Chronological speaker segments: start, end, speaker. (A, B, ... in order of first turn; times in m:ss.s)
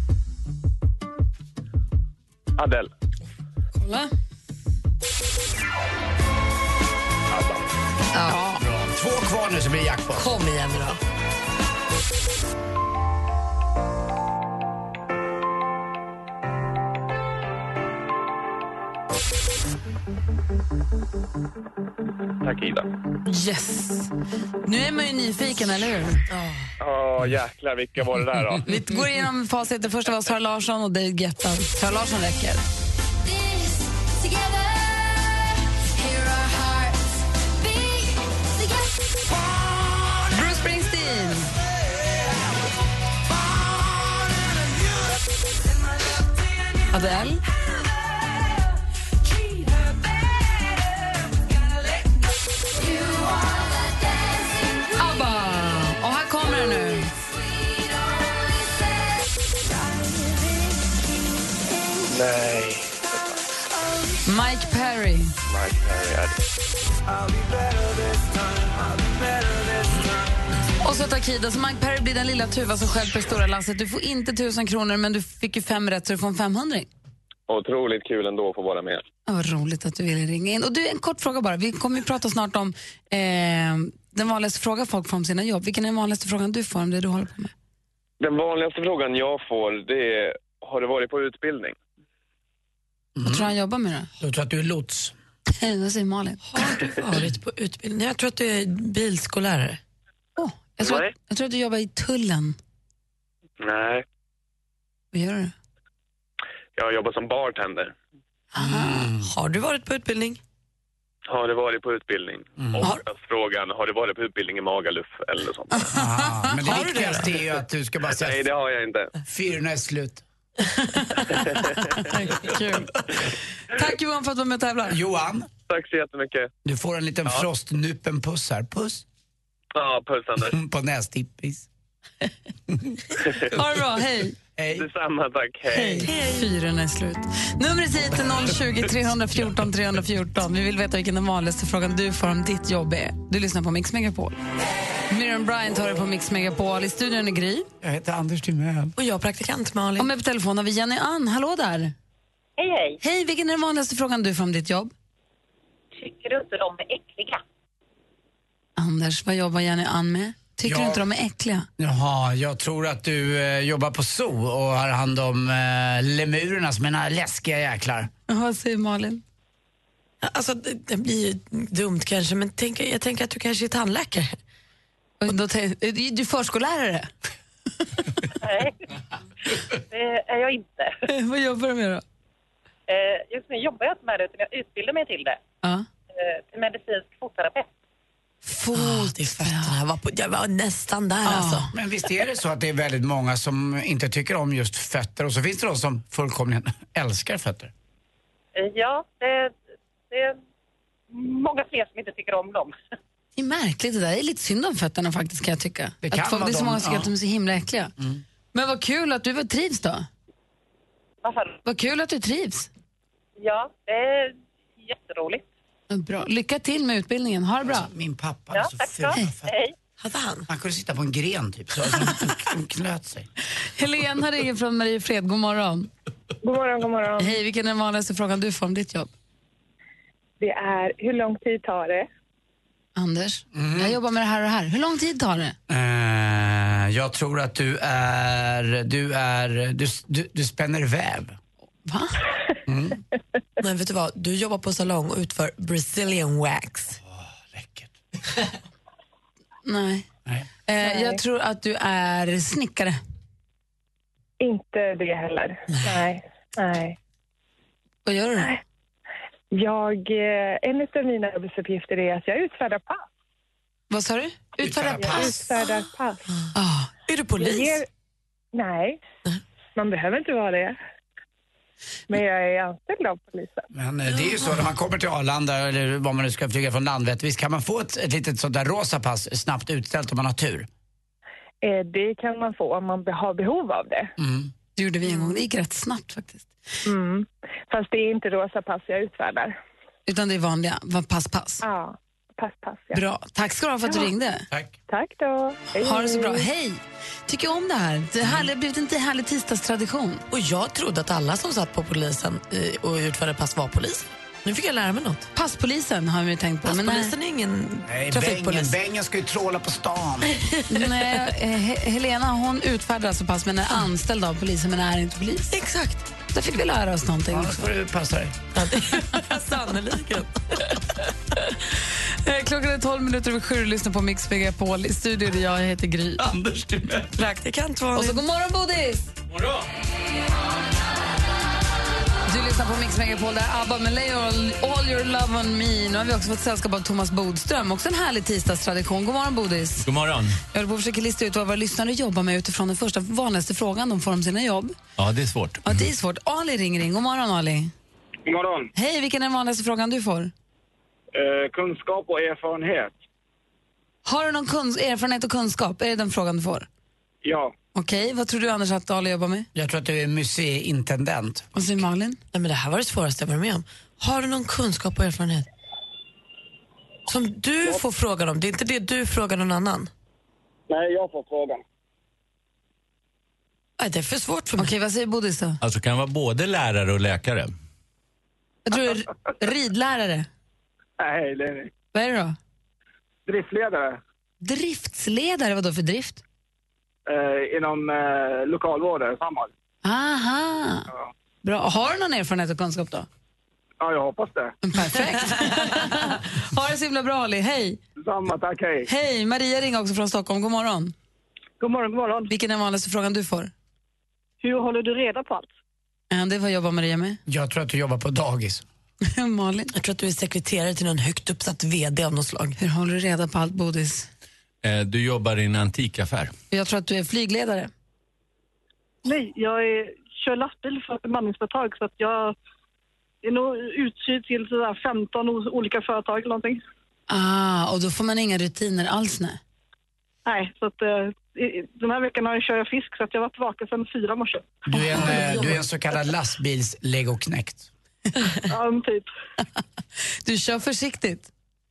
0:02.6-0:02.9 A
0:03.8-0:04.1 B
0:08.1-0:08.6 B
0:08.6-0:10.3 C
0:10.2-0:10.8 D
0:22.4-0:22.9 A
0:23.3-0:24.1 B
0:24.7-0:26.2 B
0:26.3-0:26.7 D
0:26.8-0:28.7 A
0:28.7-0:32.6 B
0:36.0-0:37.0 B
0:40.3-0:41.5 B
0:46.9-0:47.4 B
0:55.0-0:57.2 B
1:02.0-1:03.4 A
1:04.3-1:05.4 B
1:05.5-1:06.4 A
1:10.8-1:16.9 B
1:17.5-1:19.0 A
1:19.3-1:27.5 B
1:28.2-1:31.8 A
1:33.2-1:33.5 C
1:33.2-1:34.1 B
1:34.2-1:35.1 C
1:35.6-1:36.4 B
1:36.5-1:39.8 D
1:40.4-1:42.6 B
1:40.8-1:41.1 A
1:43.6-1:44.0 A
1:45.1-1:45.5 B
1:46.8-1:48.0 A
1:48.5-1:49.1 B
1:48.6-1:49.3 C
1:49.2-1:50.4 D
1:51.3-1:55.9 A
1:52.6-1:52.9 C
1:55.8-1:57.2 B
1:55.9-1:58.4 C
1:56.7-1:57.3 D
1:58.1-1:59.1 A
1:59.3-2:00.2 C
2:01.5-2:02.0 A
2:02.0-2:02.9 B
2:03.7-2:05.0 B
2:04.9-2:05.5 C
2:05.7-2:06.5 A
2:06.6-2:09.0 C
2:09.8-2:10.6 A
2:10.5-2:11.7 C
2:13.5-2:14.4 B
2:14.6-2:14.9 C
2:14.7-2:16.1 A
2:15.7-2:24.4 B
2:16.0-2:16.4 D
2:25.1-2:27.7 B
2:27.8-2:28.9 C
2:29.0-2:30.1 D
2:30.0-2:31.9 B
2:32.6-2:33.0 E
2:33.0-2:34.9 B
2:36.0-2:37.4 E
2:38.8-2:41.7 B
2:40.6-2:41.0 C
2:41.8-2:48.1 C
2:48.3-2:49.2 B
2:50.2-2:54.4 D
2:55.2-2:57.1 B
2:58.4-2:58.8 E
2:59.7-3:01.0 E
3:01.1-3:02.0 B
3:02.9-3:05.4 E
3:06.2-3:07.7 E
3:08.4-3:09.7 B
3:08.7-3:11.7 D
3:11.3-3:11.7 B
3:11.7-3:17.7 C
3:18.6-3:19.6 E
3:20.1-3:20.4 E
3:21.1-3:22.8 E
3:23.4-3:27.9 B
3:26.0-3:27.1 C
3:28.5-3:30.1 B
3:31.2-3:31.6 E
3:31.6-3:32.7 B
3:33.4-3:35.5 E
3:35.9-3:37.9 B
3:37.6-3:39.6 C
3:38.5-3:39.7 E
3:40.0-3:40.5 D
3:40.5-3:43.3 C
3:43.8-3:45.9 B
3:46.4-3:47.4 F
3:47.2-3:49.1 B
3:50.4-3:52.1 F
3:53.0-3:55.6 B
3:53.5-3:54.0 C
3:55.7-4:01.4 C
4:01.9-4:02.2 B
4:02.7-4:03.0 C
4:03.6-4:07.0 D
4:07.5-4:07.9 C
4:09.7-4:10.1 B
4:10.7-4:13.0 B
4:10.8-4:11.2 F
4:14.4-4:17.0 F
4:15.8-4:16.0 D
4:18.1-4:18.5 B
4:19.5-4:23.0 F
4:23.9-4:25.4 B
4:24.6-4:25.4 C
4:25.0-4:26.2 F
4:26.6-4:26.9 B
4:27.1-4:27.8 D
4:27.4-4:27.9 F
4:28.5-4:29.0 F
4:29.8-4:30.8 F
4:32.1-4:33.7 F
4:33.7-4:40.7 C
4:41.6-4:44.1 F
4:44.2-4:44.5 C
4:44.8-4:46.5 B
4:45.1-4:45.3 F
4:46.9-4:49.6 F
4:50.1-4:51.6 B
4:51.6-4:53.0 F
4:52.9-4:54.4 B
4:53.9-4:54.1 F
4:54.9-4:56.5 F
4:55.8-5:00.2 B
5:00.3-5:05.3 D
5:05.4-5:07.1 B
5:06.6-5:08.8 D
5:07.9-5:10.3 C
5:10.4-5:10.9 D
5:10.7-5:15.5 B
5:15.5-5:16.0 D
5:16.3-5:17.7 B
5:17.3-5:18.4 C
5:18.6-5:20.6 D
5:22.2-5:26.3 B
5:26.3-5:26.8 C
5:27.2-5:28.2 D
5:28.0-5:29.1 B
5:29.3-5:29.7 G
5:32.3-5:39.9 B
5:39.8-5:40.4 G
5:40.5-5:44.8 B
5:45.0-5:45.9 G
5:45.6-5:47.7 B
5:48.3-5:48.7 H
5:48.8-5:50.3 B
5:51.1-5:52.9 H
5:54.0-5:56.7 B
5:57.2-5:57.5 H
5:57.8-5:59.5 B
5:59.6-6:01.5 C
6:01.6-6:02.2 B
6:02.3-6:05.5 D
6:07.1-6:09.9 D
6:10.7-6:11.6 H
6:13.8-6:14.7 D
6:14.6-6:15.6 B
6:15.6-6:17.5 G
6:18.7-6:20.3 B
6:21.0-6:21.7 H
6:21.9-6:22.4 B
6:23.3-6:24.0 H
6:24.4-6:26.2 B
6:27.1-6:29.5 H
6:29.8-6:30.8 B
6:31.4-6:33.1 B
6:33.8-6:34.5 H
6:34.6-6:37.8 B
6:38.0-6:38.9 H
6:38.9-6:40.9 B
6:41.6-6:42.3 I
6:42.3-6:43.5 B
6:44.4-6:45.5 I
6:46.1-6:47.2 B
6:47.3-6:48.6 C
6:49.1-6:49.7 B
6:49.7-6:52.6 D
6:52.6-6:54.1 B
6:54.6-6:56.3 G
6:56.5-6:57.7 B
6:59.0-7:02.4 I
7:03.2-7:06.6 I
7:07.1-7:09.4 B
7:10.3-7:14.7 I
7:14.7-7:17.7 C
7:14.8-7:15.4 B
7:18.5-7:19.1 I
7:20.2-7:21.3 B